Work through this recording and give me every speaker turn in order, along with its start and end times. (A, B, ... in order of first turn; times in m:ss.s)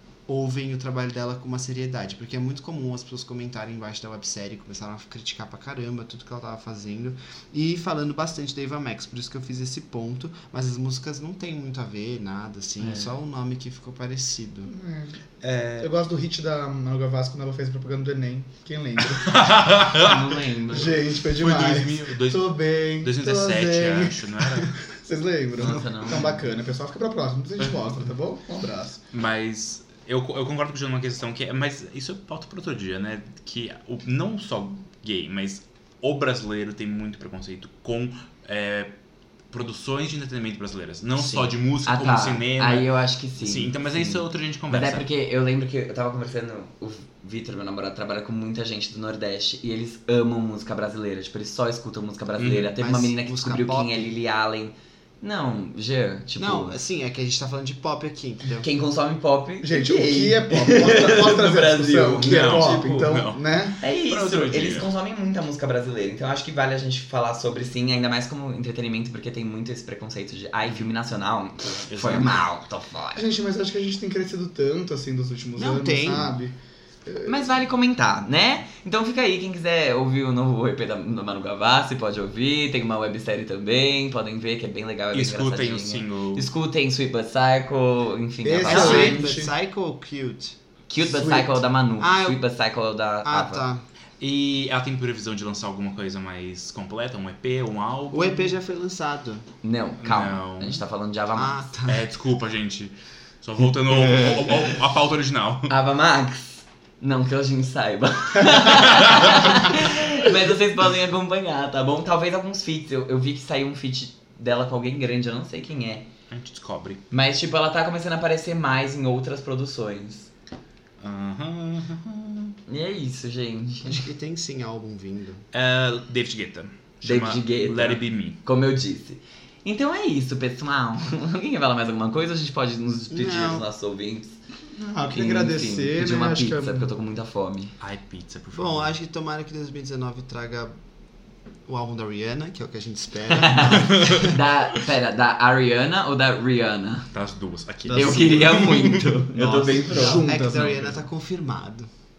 0:00.3-0:14.7 A
0:12.8-0:13.1 B
0:14.7-0:15.2 C
0:15.4-0:15.9 D
0:15.8-0:29.0 C
0:19.3-0:20.2 D
0:19.9-0:21.0 B
0:21.3-0:22.5 D
0:23.0-0:24.7 D
0:25.6-0:26.4 B
0:29.1-0:38.9 D
0:39.5-0:42.9 D
0:41.4-0:56.8 B
0:43.4-0:45.1 D
0:52.4-0:52.7 D
0:52.8-0:54.1 A
0:56.4-0:58.7 A
0:58.6-1:03.2 B
0:59.6-1:03.8 C
1:02.1-1:03.4 D
1:03.8-1:13.3 B
1:04.0-1:04.9 D
1:11.9-1:12.4 D
1:13.1-1:16.5 C
1:15.6-1:16.3 A
1:17.0-1:17.5 C
1:17.2-1:29.2 B
1:25.1-1:26.5 D
1:28.4-1:30.5 A
1:28.6-1:29.5 C
1:30.9-1:33.6 B
1:31.1-1:32.4 A
1:33.2-1:33.8 A
1:34.2-1:38.5 D
1:38.1-1:39.4 A
1:39.6-1:41.7 B
1:40.0-1:40.8 D
1:41.3-1:42.0 A
1:41.8-1:45.7 D
1:45.7-1:56.1 B
1:48.9-1:49.4 D
1:56.3-1:57.0 D
1:57.1-2:00.3 B
2:01.0-2:02.6 D
2:02.7-2:04.0 B
2:03.8-2:05.4 A
2:05.5-2:08.4 D
2:07.0-2:14.4 B
2:13.1-2:13.6 A
2:14.8-2:16.9 C
2:15.1-2:17.7 B
2:17.8-2:18.9 D
2:18.5-2:20.7 A
2:21.6-2:24.3 A
2:23.3-2:27.1 B
2:23.7-2:24.8 D
2:27.1-2:29.2 D
2:27.9-2:31.0 C
2:27.9-2:30.2 B
2:30.0-2:31.9 A